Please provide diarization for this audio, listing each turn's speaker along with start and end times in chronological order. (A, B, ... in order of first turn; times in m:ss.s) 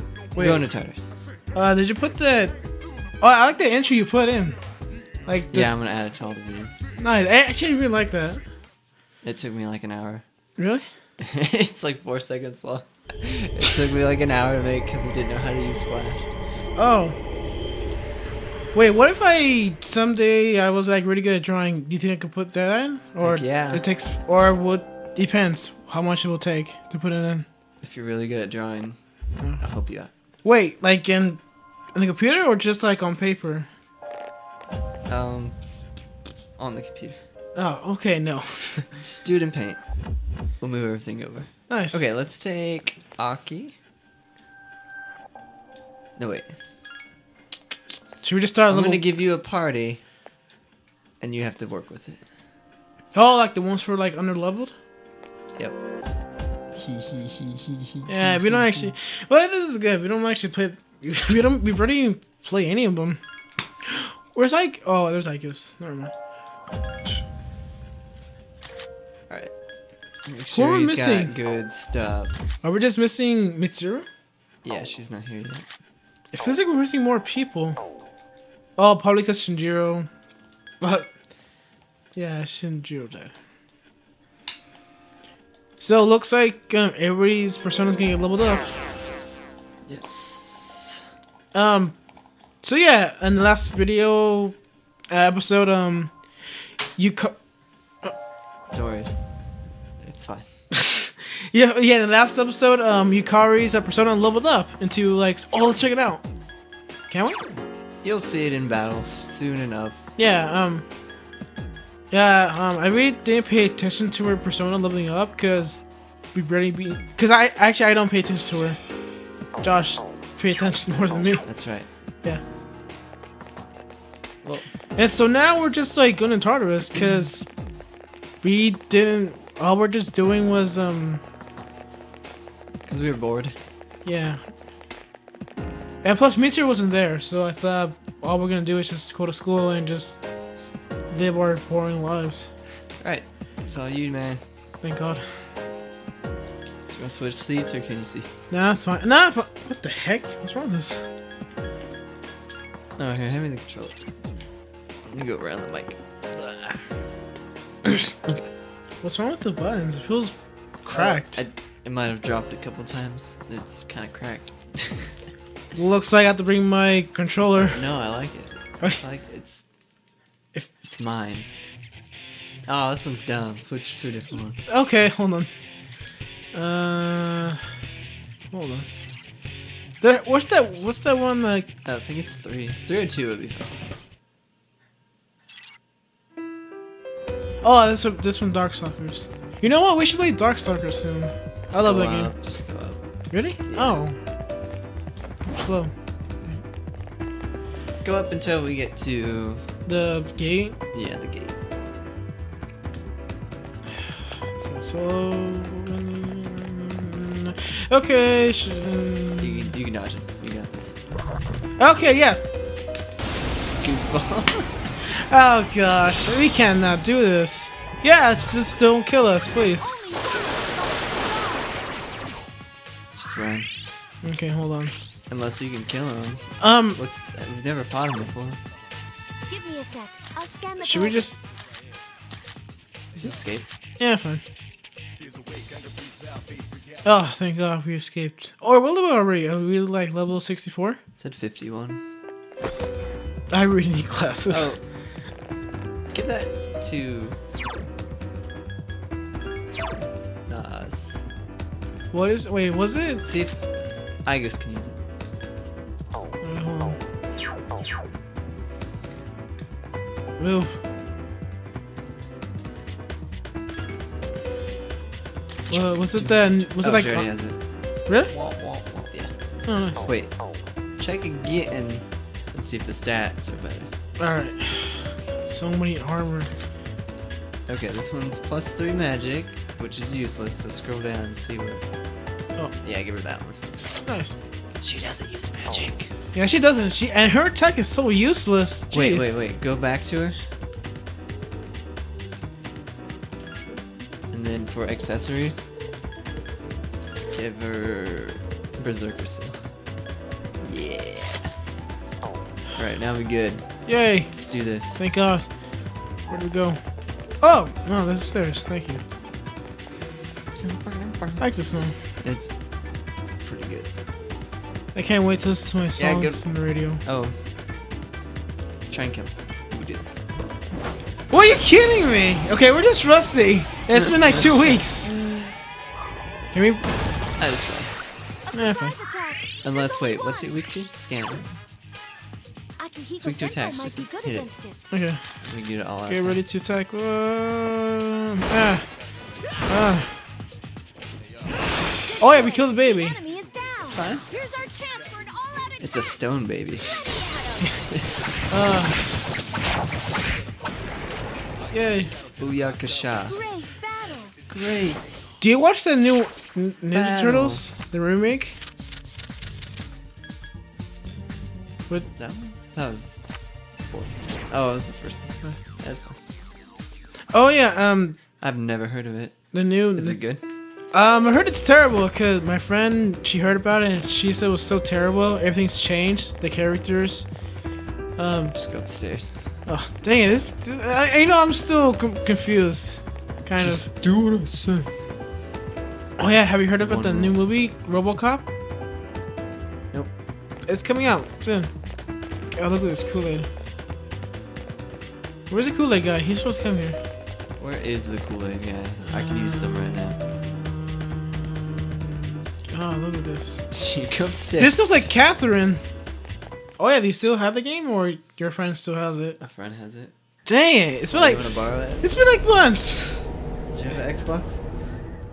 0:00.3-0:01.1 A
0:00.4-0:00.6 B
0:01.5-0:02.6 B
0:03.2-0:04.6 B
0:05.2-0:05.7 B
0:05.5-0:06.8 A
0:07.0-0:08.4 B
0:09.2-0:10.2 A
0:10.6-0:10.9 B
0:11.2-0:16.3 A
0:16.8-0:17.2 B
0:18.7-0:27.5 B
0:23.2-0:23.8 A
0:27.8-0:29.0 A
0:29.6-0:30.1 A
0:30.4-0:31.4 B
0:31.9-0:33.7 B
0:35.1-0:35.6 A
0:36.6-0:37.2 A
0:37.6-0:38.9 B
0:39.0-0:39.8 A
0:40.6-0:43.8 A
0:41.7-0:42.0 B
0:46.2-0:46.6 A
0:48.2-0:49.0 B
0:48.7-0:50.0 A
0:51.2-0:52.2 A
0:53.1-0:54.7 B
0:56.7-0:58.9 A
0:58.1-1:03.2 B
1:03.8-1:06.1 B
1:10.3-1:12.3 A
1:10.5-1:11.3 B
1:12.6-1:14.1 B
1:14.6-1:15.7 A
1:16.3-1:17.8 B
1:18.8-1:20.1 B
1:20.8-1:21.1 B
1:22.2-1:23.4 B
1:25.8-1:28.8 B
1:29.9-1:31.0 A
1:31.5-1:32.0 B
1:32.6-1:34.6 B
1:35.1-1:37.4 B
1:38.7-1:39.2 A
1:40.0-1:40.5 A
1:40.7-1:46.2 B
1:47.1-1:47.4 B
1:48.0-1:50.1 A
1:50.2-1:50.8 B
1:52.1-1:58.8 B
1:59.6-2:01.5 B
2:01.4-2:01.9 A
2:05.0-2:07.5 B
2:08.4-2:11.2 B
2:12.9-2:13.6 A
2:14.0-2:14.4 B
2:16.0-2:20.2 B
2:21.1-2:22.5 B
2:23.0-2:24.4 A
2:24.8-2:25.4 B
2:26.9-2:28.3 A
2:28.5-2:31.0 B
2:33.0-2:34.1 A
2:35.1-2:36.0 A
2:39.0-2:41.4 B
2:40.9-2:45.2 A
2:45.7-2:47.8 B
2:47.7-2:49.7 A
2:50.6-2:51.5 A
2:52.7-2:54.6 A
2:54.7-2:55.5 B
2:56.5-2:57.7 B
2:58.5-2:58.9 B
3:00.0-3:01.7 B
3:01.8-3:03.7 A
3:07.6-3:12.3 B
3:11.7-3:13.0 A
3:13.3-3:14.2 B
3:13.7-3:14.0 A
3:15.4-3:15.9 B
3:18.0-3:19.6 A
3:19.9-3:20.8 B
3:20.9-3:21.6 A
3:24.1-3:29.7 B
3:29.4-3:31.0 A
3:31.8-3:32.4 B
3:33.6-3:35.0 A
3:35.0-3:40.0 B
3:39.6-3:41.9 C
3:43.2-3:43.7 A
3:44.2-3:45.0 B
3:45.3-3:48.6 A
3:46.6-3:47.0 B
3:49.5-3:51.3 C
3:50.8-3:51.4 B
3:53.2-3:53.7 A
3:54.0-3:54.4 B
3:57.0-4:01.0 B
4:01.2-4:02.0 A
4:03.5-4:04.7 B
4:04.5-4:04.8 A
4:06.1-4:07.4 A
4:10.5-4:11.3 A
4:12.1-4:13.2 B
4:13.2-4:13.6 A
4:14.2-4:15.0 A
4:16.4-4:17.0 B
4:20.4-4:20.8 B
4:25.7-4:27.3 B
4:25.7-4:27.6 A
4:28.1-4:28.3 B
4:28.3-4:29.3 A
4:29.7-4:30.0 B
4:30.0-4:30.4 A
4:31.0-4:33.9 A
4:34.2-4:36.5 B
4:37.7-4:41.8 A
4:42.8-4:43.6 A
4:44.0-4:44.4 B
4:44.8-4:46.1 A
4:46.3-4:49.3 B
4:48.9-4:50.4 A
4:54.3-4:55.7 A
4:57.4-4:59.6 A
5:00.6-5:01.5 A
5:02.8-5:05.0 A
5:03.9-5:04.4 B
5:05.0-5:05.5 B
5:06.3-5:06.8 B
5:07.4-5:09.0 B
5:10.6-5:11.5 A
5:11.4-5:12.0 B
5:12.2-5:12.6 A
5:13.4-5:13.9 A
5:14.9-5:17.0 B
5:16.0-5:16.4 A
5:17.0-5:17.4 A
5:18.9-5:20.2 A
5:21.3-5:25.1 B
5:23.9-5:25.5 A
5:26.5-5:26.8 B
5:27.4-5:28.0 A
5:28.4-5:30.5 C
5:28.5-5:29.0 B
5:29.6-5:31.5 A
5:32.8-5:34.8 C
5:33.2-5:34.5 A
5:34.9-5:35.2 B
5:35.4-5:36.4 A
5:36.1-5:38.9 B
5:39.7-5:40.1 B
5:42.0-5:46.2 C
5:42.2-5:43.2 B
5:43.8-5:44.2 A
5:45.8-5:46.9 A
5:46.8-5:47.9 C
5:47.9-5:48.2 A
5:48.5-5:49.2 B
5:51.7-5:52.1 B
5:52.4-5:53.4 A
5:53.3-5:54.4 C
5:54.5-5:55.0 A
5:55.4-5:58.6 B
5:56.9-5:57.7 A
6:02.0-6:03.2 A
6:03.9-6:06.2 A
6:07.3-6:08.2 B
6:08.4-6:10.4 A
6:09.5-6:10.2 B
6:10.9-6:17.3 B
6:18.2-6:18.6 B
6:18.6-6:19.6 A
6:19.7-6:23.9 B
6:23.6-6:24.9 A
6:26.2-6:28.4 B
6:26.8-6:27.4 A
6:30.7-6:31.7 B
6:32.5-6:33.5 B
6:35.5-6:37.0 B
6:37.6-6:40.2 A
6:39.1-6:43.6 B
6:43.7-6:44.8 A
6:44.6-6:45.8 B
6:46.8-6:49.4 B
6:49.4-6:50.1 A
6:50.5-6:53.2 B
6:51.1-6:52.0 A
6:53.7-6:54.6 A